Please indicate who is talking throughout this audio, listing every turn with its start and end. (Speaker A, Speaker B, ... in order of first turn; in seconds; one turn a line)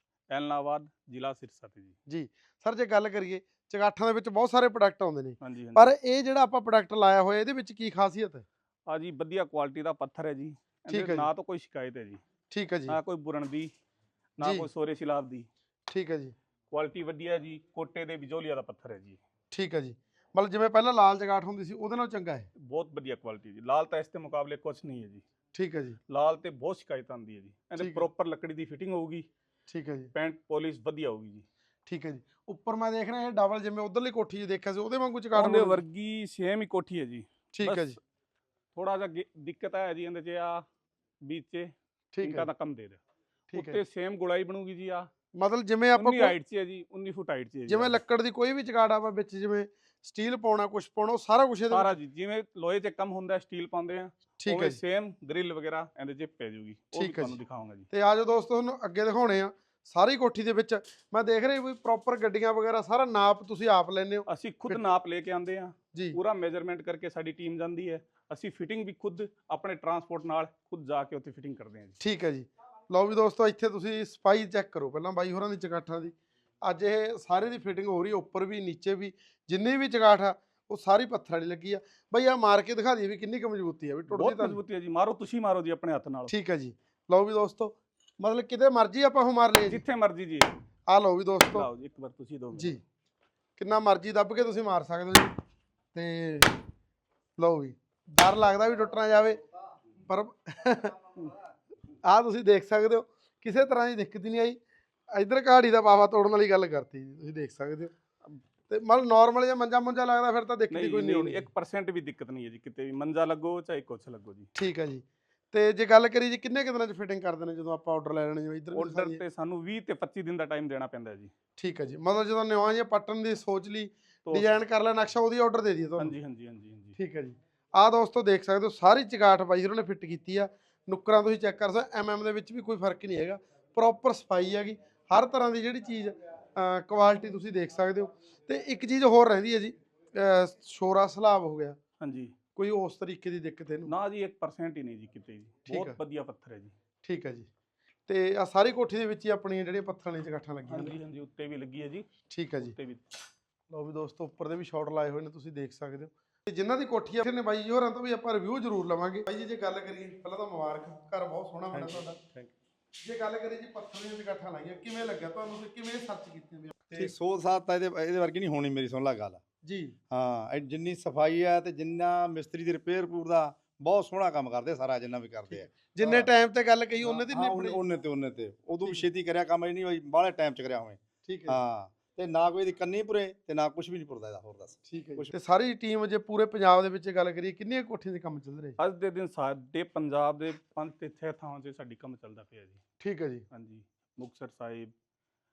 Speaker A: 0.3-1.9
Speaker B: 2.1-8.4
Speaker A: 5.4-5.9
Speaker A: 8.9-12.2
Speaker B: 10.9-11.3
Speaker B: 12.5-13.0
Speaker A: 12.9-13.7
Speaker A: 14.4-15.5
Speaker B: 14.4-14.7
Speaker B: 15.9-16.3
Speaker A: 16.7-19.2
Speaker B: 19.5-22.5
Speaker A: 22.6-25.2
Speaker B: 25.5-26.0
Speaker A: 26.1-29.3
Speaker B: 27.8-28.1
Speaker B: 29.7-30.1
Speaker A: 30.1-31.4
Speaker B: 31.9-35.8
Speaker A: 35.4-38.0
Speaker B: 37.5-38.0
Speaker A: 38.8-40.6
Speaker A: 41.2-43.0
Speaker B: 42.1-42.5
Speaker B: 43.5-43.8
Speaker A: 43.5-45.1
Speaker B: 45.3-46.3
Speaker A: 45.9-48.0
Speaker B: 47.7-51.9
Speaker A: 51.7-57.9
Speaker B: 54.4-54.8
Speaker B: 56.9-57.4
Speaker B: 57.9-64.8
Speaker A: 64.3-72.0
Speaker B: 72.0-84.6
Speaker A: 84.1-86.3
Speaker B: 86.3-89.8
Speaker A: 89.7-90.5
Speaker B: 90.9-91.7
Speaker A: 91.5-92.8
Speaker B: 92.5-92.8
Speaker B: 93.6-95.3
Speaker B: 95.9-96.6
Speaker B: 97.4-99.4
Speaker B: 100.0-100.9
Speaker B: 102.0-104.6
Speaker B: 105.1-107.9
Speaker B: 108.7-111.5
Speaker A: 110.7-114.5
Speaker B: 114.5-119.2
Speaker A: 118.7-121.3
Speaker B: 121.6-126.2
Speaker A: 124.2-124.6
Speaker A: 126.0-127.0
Speaker B: 127.0-141.8
Speaker A: 142.0-142.3
Speaker B: 142.5-143.9
Speaker A: 143.9-146.7
Speaker B: 145.7-146.0
Speaker B: 147.0-147.5
Speaker B: 148.1-150.9
Speaker A: 150.7-152.1
Speaker B: 152.3-152.7
Speaker A: 152.7-153.0
Speaker B: 153.7-162.2
Speaker C: 161.7-162.5
Speaker B: 163.0-167.1
Speaker C: 166.9-169.4
Speaker B: 169.6-170.0
Speaker C: 170.1-176.3
Speaker B: 175.5-177.8
Speaker C: 177.0-185.3
Speaker B: 181.2-181.6
Speaker B: 184.8-188.8
Speaker A: 188.8-192.8
Speaker B: 193.0-193.4
Speaker A: 193.5-194.9